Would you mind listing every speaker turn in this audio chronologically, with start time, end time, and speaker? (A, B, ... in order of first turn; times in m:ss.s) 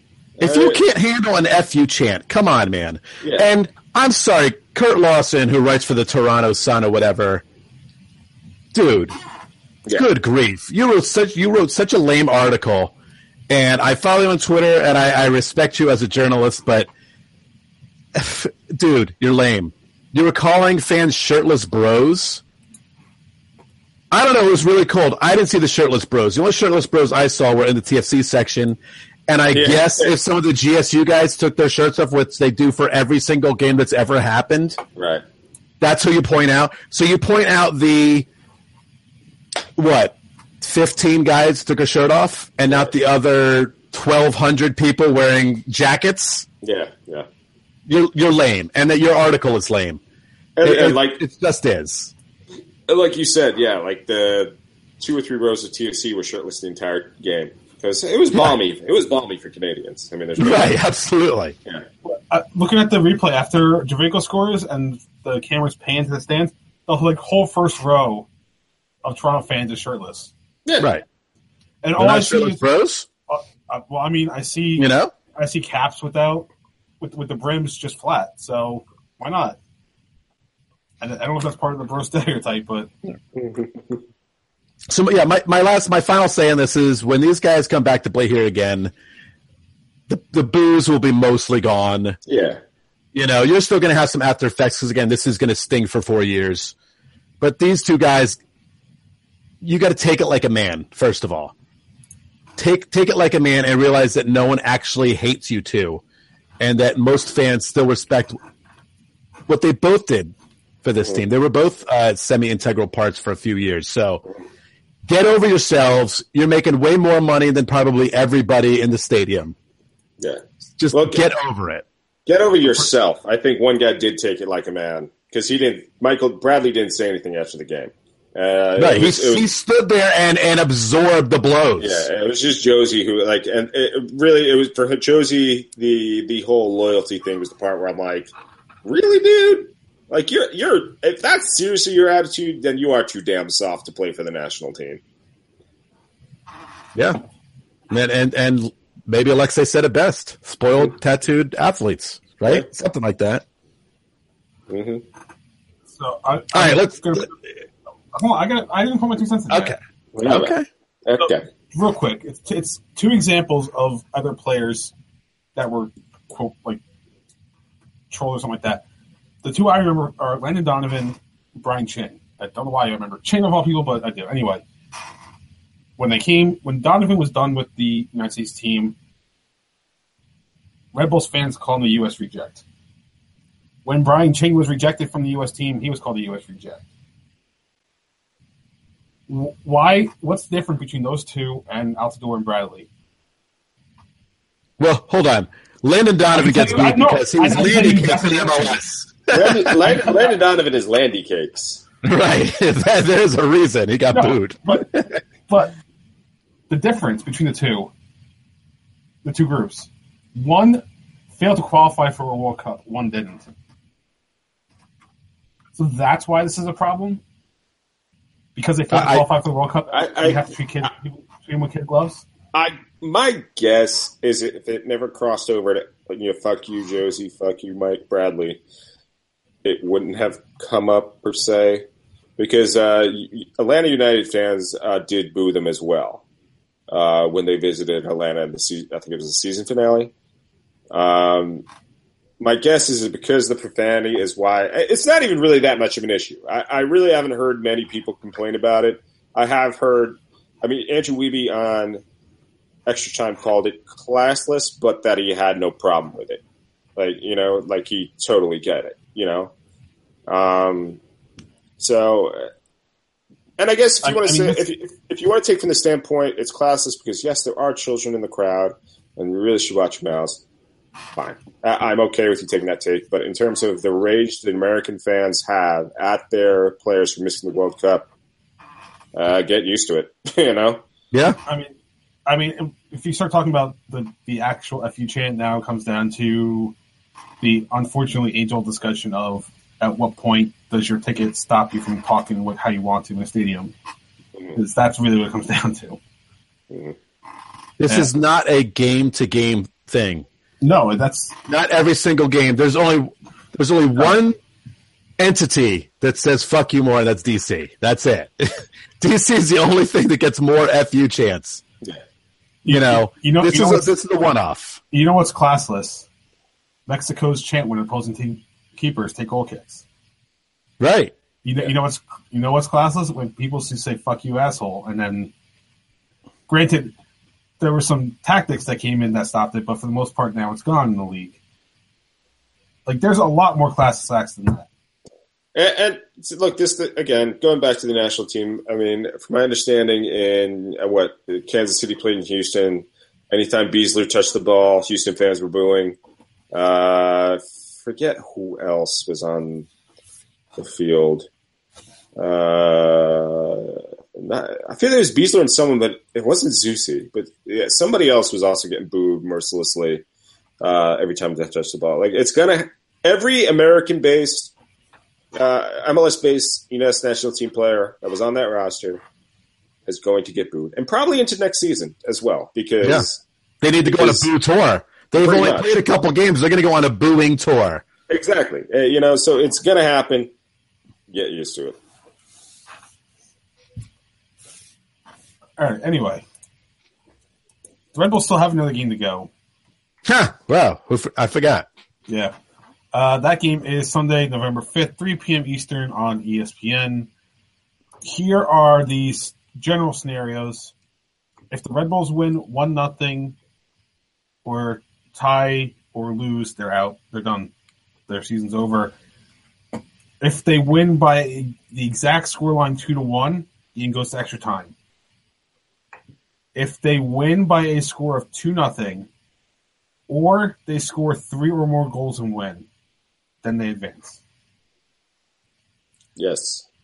0:00.4-0:00.8 A
0:00.4-0:07.4 B
0:08.7-0:09.1 B
0:09.9-0:12.9 B
0:13.5-0:16.9 B
0:18.1-0:22.4 B
0:24.1-0:34.8 B
0:29.5-0:30.1 A
0:35.0-0:35.2 A
0:35.8-0:38.3 B
0:39.8-0:46.4 B
0:46.6-0:47.3 A
0:47.9-0:50.0 B
0:50.6-0:51.2 A
0:50.6-0:52.1 B
0:52.9-1:00.7 A
1:00.4-1:01.6 B
1:02.0-1:08.3 C
1:09.0-1:10.3 C
1:10.6-1:10.9 A
1:10.8-1:11.0 B
1:11.8-1:12.6 C
1:12.0-1:13.1 B
1:13.3-1:16.5 C
1:14.8-1:15.1 B
1:17.0-1:19.6 C
1:21.0-1:22.9 C
1:23.3-1:24.0 A
1:24.9-1:28.9 B
1:30.1-1:32.2 B
1:32.3-1:32.6 A
1:33.1-1:36.7 B
1:37.4-1:38.4 B
1:39.6-1:41.5 B
1:42.6-1:46.0 B
1:46.6-1:48.4 B
1:49.5-1:50.3 B
1:50.8-1:54.2 B
1:55.1-1:59.5 B
2:00.2-2:01.3 A
2:00.8-2:01.8 B
2:02.3-2:09.4 A
2:08.8-2:12.1 B
2:11.8-2:18.3 A
2:18.8-2:25.0 A
2:27.9-2:33.4 B
2:34.7-2:35.0 A
2:35.9-2:37.3 C
2:36.5-2:37.3 B
2:38.1-2:39.7 C
2:39.5-2:40.7 B
2:40.1-2:40.5 A
2:41.0-2:41.4 A
2:41.2-2:44.9 C
2:45.6-2:46.8 C
2:48.1-2:48.8 C
2:49.4-2:54.6 C
2:56.0-2:59.0 C
3:00.9-3:02.6 C
3:03.8-3:06.8 C
3:09.3-3:12.9 C
3:14.8-3:19.9 B
3:16.3-3:18.8 C
3:19.3-3:21.8 A
3:22.0-3:25.2 B
3:24.1-3:24.9 C
3:25.5-3:25.7 C
3:26.7-3:27.9 C
3:29.2-3:30.8 C
3:31.4-3:33.5 C
3:35.8-3:37.2 C
3:38.6-3:42.2 C
3:38.9-3:39.2 B
3:39.9-3:40.5 A
3:42.5-3:48.6 A
3:49.6-3:51.8 A
3:52.4-3:56.2 A
3:56.9-4:00.1 A
4:00.9-4:01.6 A
4:02.4-4:12.0 A
4:12.8-4:16.4 A
4:17.0-4:19.5 A
4:20.3-4:21.0 A
4:21.8-4:22.5 A
4:23.6-4:30.4 A
4:24.0-4:24.6 C
4:31.1-4:38.1 A
4:39.1-4:40.8 A
4:41.1-4:41.4 B
4:41.4-4:41.7 C
4:42.2-4:46.7 C
4:47.4-4:53.7 C
4:54.5-4:56.0 C
4:56.7-4:57.0 A
4:57.8-5:00.2 B
5:00.6-5:01.3 C
5:01.5-5:04.4 B
5:05.2-5:11.6 B
5:12.6-5:13.9 C
5:12.7-5:14.8 B
5:14.9-5:16.1 C
5:16.9-5:19.8 C
5:20.8-5:21.1 B
5:21.4-5:25.3 C
5:26.5-5:26.9 C
5:27.6-5:31.4 C
5:32.8-5:34.7 C
5:35.5-5:46.0 A
5:46.5-5:49.7 A
5:50.6-5:51.3 A
5:52.2-6:00.0 A
6:00.6-6:04.5 A
6:05.3-6:09.0 A
6:09.9-6:13.2 A
6:13.6-6:17.8 B
6:13.8-6:14.3 A
6:15.2-6:15.7 A
6:18.1-6:20.3 A
6:21.1-6:21.8 A
6:25.6-6:26.2 C
6:27.9-6:29.3 C
6:30.0-6:31.7 B
6:32.1-6:32.3 C
6:32.9-6:37.1 C
6:38.0-6:40.7 C
6:41.5-6:43.4 C
6:44.4-6:47.5 C
6:48.1-6:48.9 C
6:50.2-6:54.7 C
6:56.5-6:59.1 C
7:00.1-7:02.6 C
7:03.4-7:04.2 C
7:06.2-7:06.6 A